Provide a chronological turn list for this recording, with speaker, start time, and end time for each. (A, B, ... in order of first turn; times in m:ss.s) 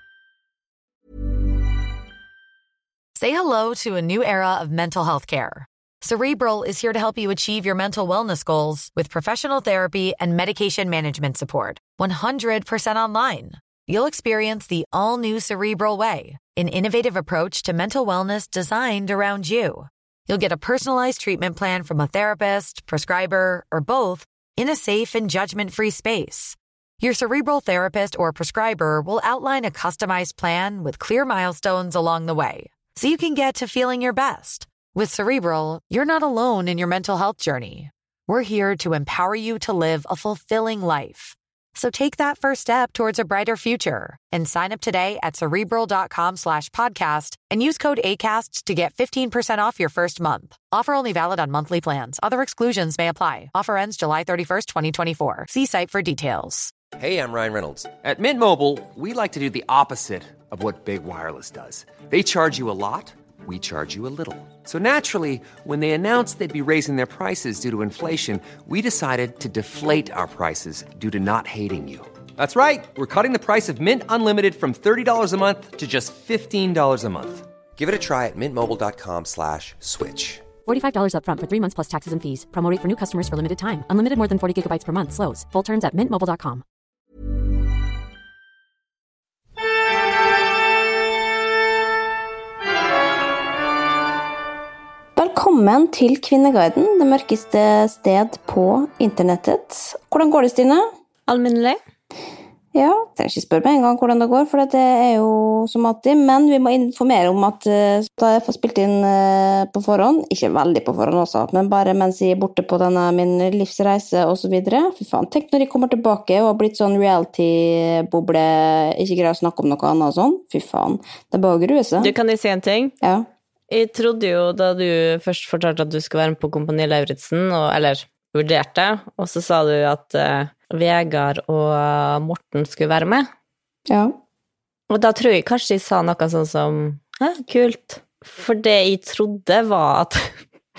0:03.1-0:56.7 A
0:57.0-1:20.5 B
1:20.6-1:26.6 C
1:35.2-1:40.8 D
1:41.3-1:41.8 E
1:42.7-2:02.1 D
2:02.0-2:02.9 E
2:03.0-2:03.3 D
2:03.7-2:13.3 E
2:13.9-2:14.2 D
2:14.9-2:20.3 E